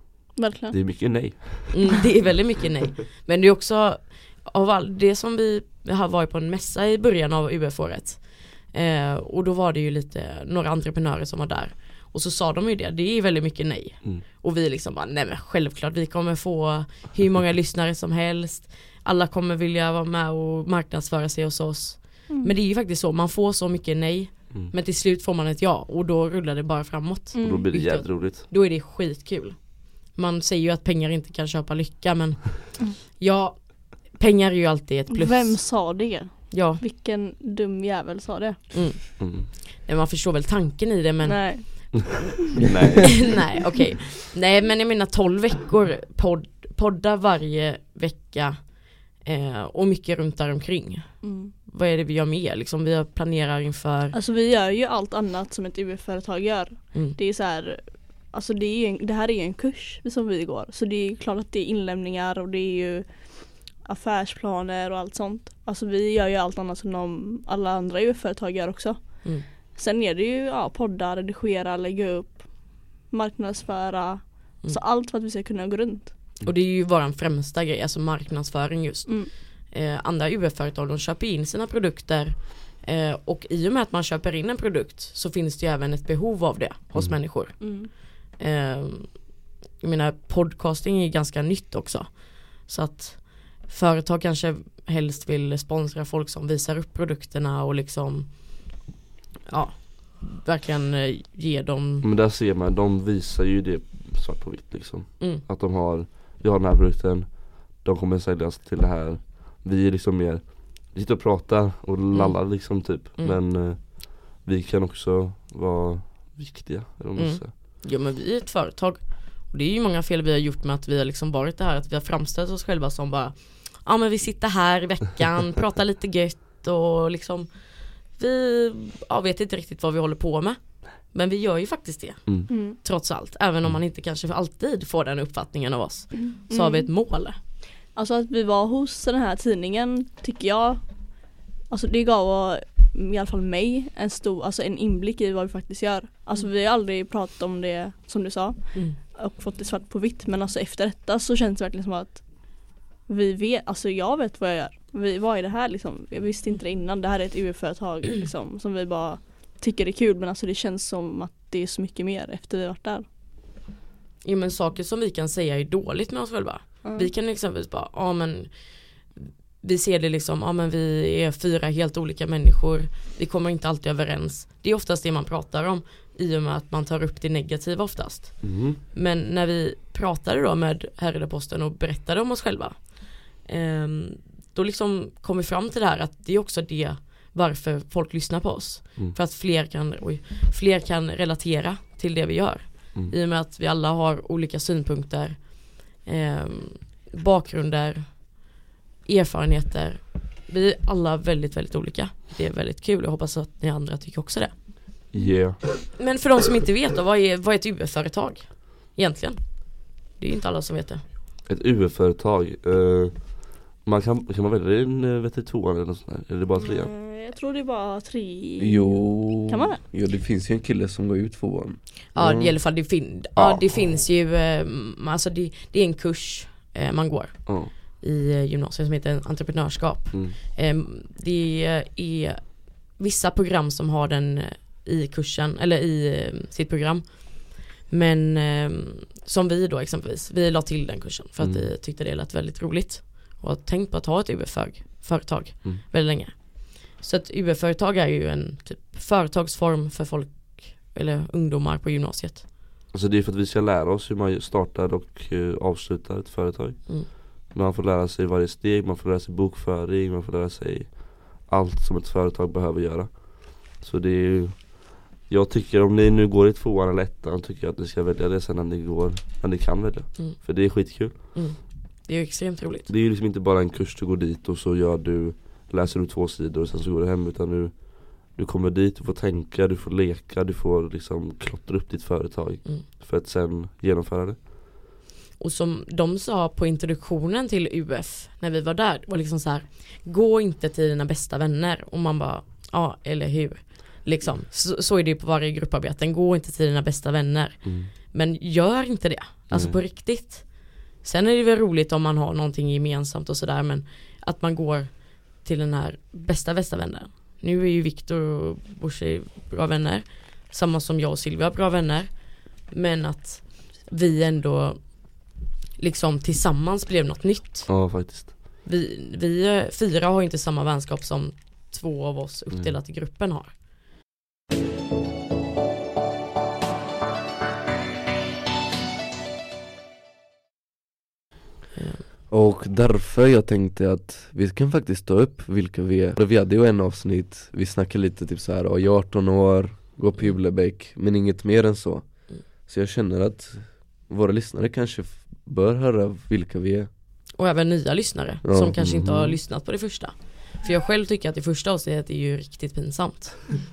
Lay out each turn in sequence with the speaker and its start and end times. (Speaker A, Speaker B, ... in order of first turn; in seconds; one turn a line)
Speaker A: 0.3-0.8
Speaker B: 0.7-2.0
Speaker C: 1.7-36.8
Speaker A: 27.3-27.7
Speaker B: 27.4-28.4
Speaker A: 35.1-38.7
Speaker C: 38.7-42.1
Speaker B: 39.2-39.5
Speaker A: 41.2-42.3
Speaker B: 42.6-43.4
Speaker C: 43.1-54.1
Speaker A: 51.2-51.5
Speaker A: 54.1-76.1
Speaker C: 76.4-98.8
Speaker A: 87.6-87.9
Speaker C: 99.5-102.1
Speaker B: 102.0-117.5
Speaker C: 112.1-113.4
Speaker C: 117.2-137.4
Speaker A: 132.5-132.8
Speaker A: 136.2-136.9
Speaker A: 137.9-163.1
Speaker C: 164.2-204.9
Speaker A: 166.8-167.1
Speaker B: 178.4-178.8
Speaker B: 205.1-205.8
Speaker C: 205.9-211.1
Speaker B: 211.4-216.9
Speaker A: 216.6-219.8
Speaker D: 218.6-222.6
Speaker C: 222.1-252.5
Speaker B: 223.3-223.8
Speaker B: 227.5-227.7
Speaker B: 241.4-241.7
Speaker B: 252.9-271.4
Speaker C: 270.2-272.9
Speaker B: 272.9-284.5
Speaker C: 285.4-323.5
Speaker B: 297.6-297.9
Speaker B: 299.5-299.8
Speaker B: 317.7-318.4
Speaker C: 331.8-332.0
Speaker D: 332.3-346.9
Speaker C: 347.3-353.5
Speaker D: 348.4-349.0
Speaker B: 348.8-349.4